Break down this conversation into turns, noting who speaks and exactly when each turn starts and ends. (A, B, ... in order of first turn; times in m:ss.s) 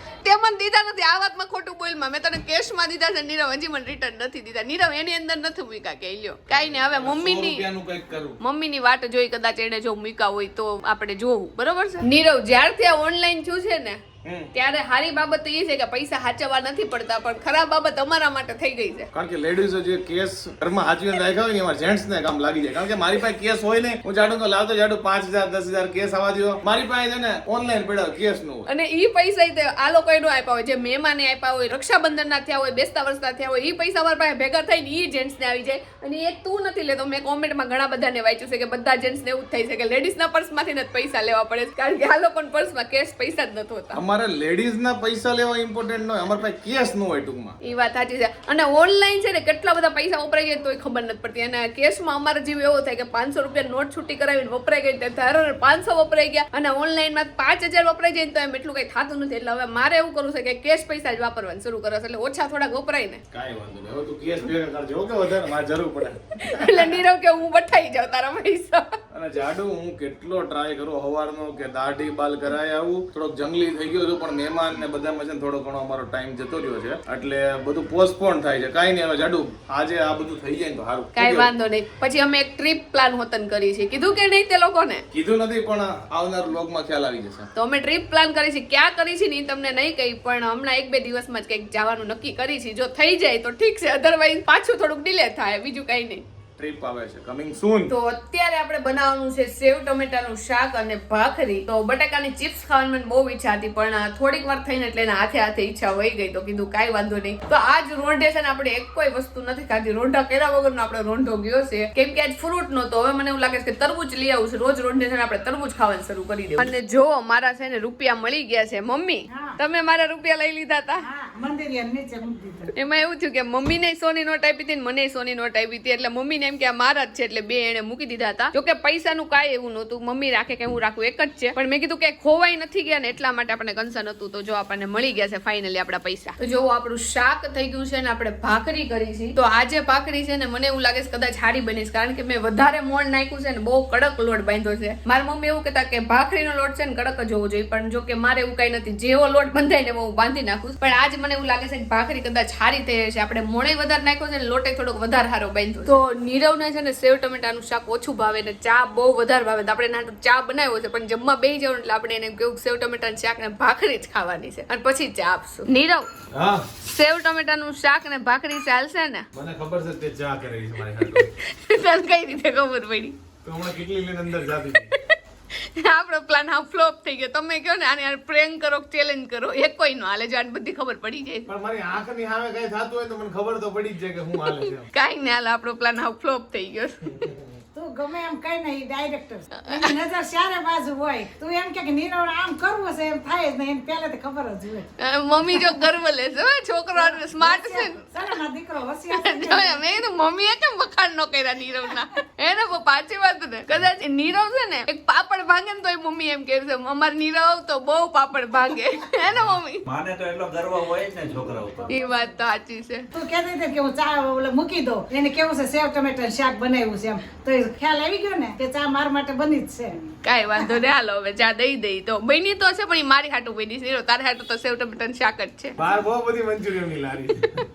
0:00.2-0:07.7 A
0:06.5-0:08.4 B
0:08.4-0:14.0 A
0:14.2-0:14.5 B
0:14.5-0:19.1 A
0:19.1-0:28.7 B
0:28.7-0:44.0 A
0:43.9-0:47.6 B
0:47.6-1:03.2 A
1:03.3-1:07.0 B
1:06.4-1:08.8 A
1:09.1-1:21.5 B
1:21.2-1:25.0 A
1:25.1-1:27.5 B
1:27.6-1:36.2 A
1:36.6-1:37.9 B
1:37.9-2:01.0 A
1:59.3-1:59.6 C
2:01.0-2:02.7 C
2:02.7-2:46.1 A
2:46.3-2:46.7 B
2:46.8-2:49.3 A
2:49.3-2:51.3 B
2:51.0-2:53.2 A
2:53.4-2:54.9 B
2:54.9-3:01.5 A
3:01.5-3:04.9 B
3:04.9-3:07.2 A
3:07.1-3:07.4 B
3:07.8-3:14.9 C
3:09.6-3:10.0 A
3:15.0-3:18.3 A
3:15.5-3:15.8 C
3:17.0-3:19.9 C
3:19.1-3:29.8 A
3:29.3-3:31.9 D
3:31.8-3:32.2 C
3:31.9-3:33.1 A
3:33.1-3:40.7 C
3:40.2-3:45.8 A
3:45.8-3:47.5 B